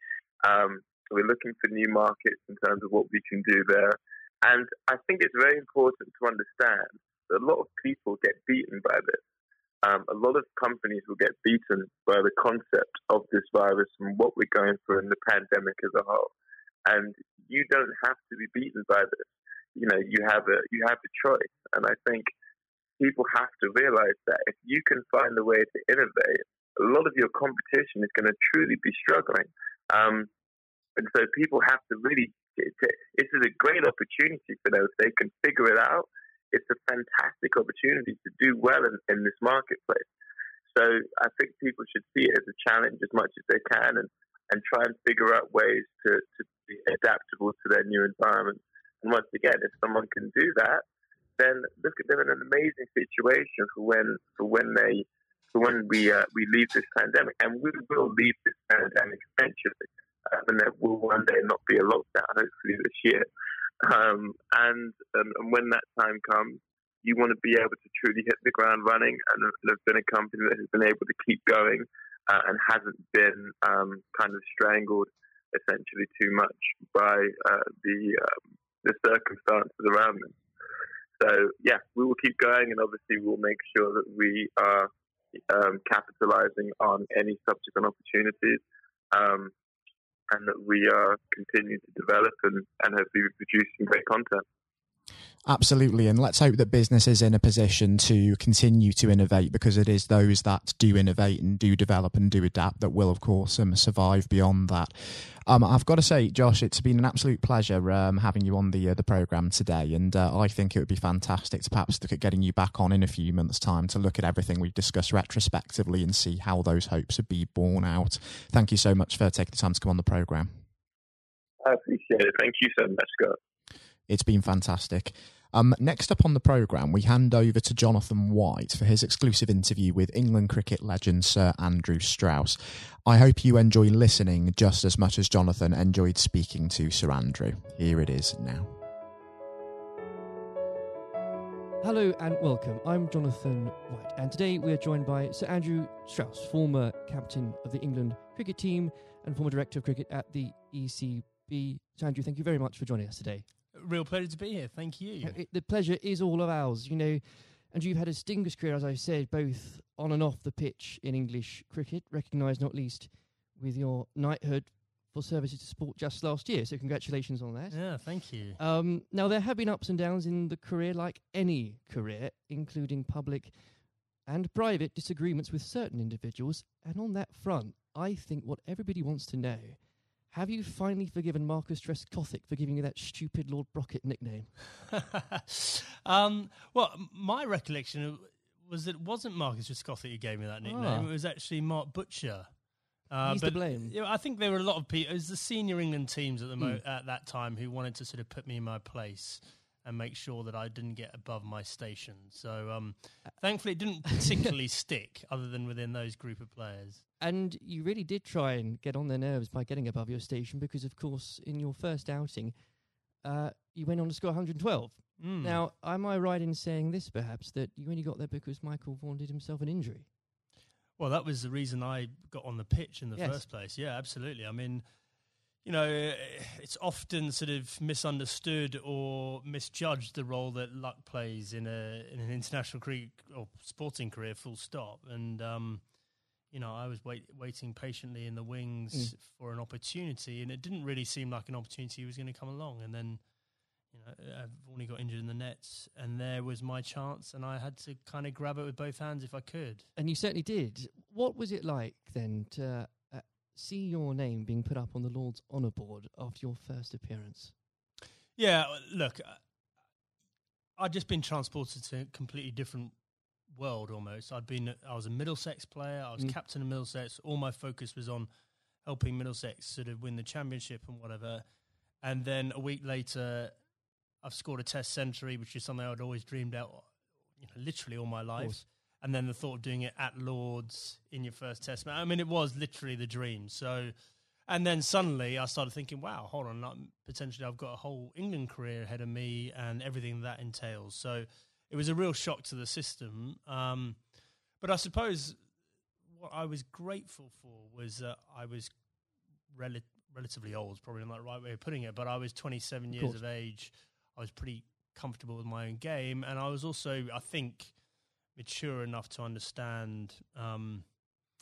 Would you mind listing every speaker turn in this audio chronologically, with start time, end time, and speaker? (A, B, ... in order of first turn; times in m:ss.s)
0:00.4-0:09.2 A
0:09.8-0:16.3 A
0:16.8-0:22.3 A
0:23.0-0:30.3 A
0:31.0-0:40.1 A
0:40.7-0:50.8 A
0:51.4-1:03.3 A
1:03.8-1:20.4 A
1:21.2-1:24.9 A
1:25.5-1:29.5 A
1:30.3-1:34.4 A
1:35.4-2:00.6 B
2:01.6-2:03.4 A
2:04.1-2:18.8 B
2:21.8-2:33.4 C
2:33.7-2:35.4 D
2:35.2-2:48.0 C
2:47.7-2:48.6 D
2:48.6-2:53.7 C
2:54.2-3:04.6 C
3:05.0-3:12.5 D
3:10.6-3:11.1 C
3:13.1-3:27.0 D
3:13.2-3:13.9 C
3:27.2-3:32.6 C
3:33.2-3:40.1 C
3:35.2-3:35.6 D
3:41.0-3:44.8 D
3:43.2-3:43.4 C
3:45.6-3:55.8 D
3:56.5-4:03.2 D
4:03.9-4:09.9 D
4:10.0-4:17.5 C
4:18.4-4:19.4 D
4:20.8-4:22.9 D
4:23.5-4:28.3 D
4:28.8-4:31.4 D
4:32.0-4:33.5 D
4:34.2-4:43.9 D
4:38.4-4:38.6 C
4:44.5-4:54.0 D
4:54.6-4:55.4 D
4:56.1-4:58.7 D
4:59.5-5:07.8 D
5:02.9-5:03.2 C
5:08.3-5:10.9 D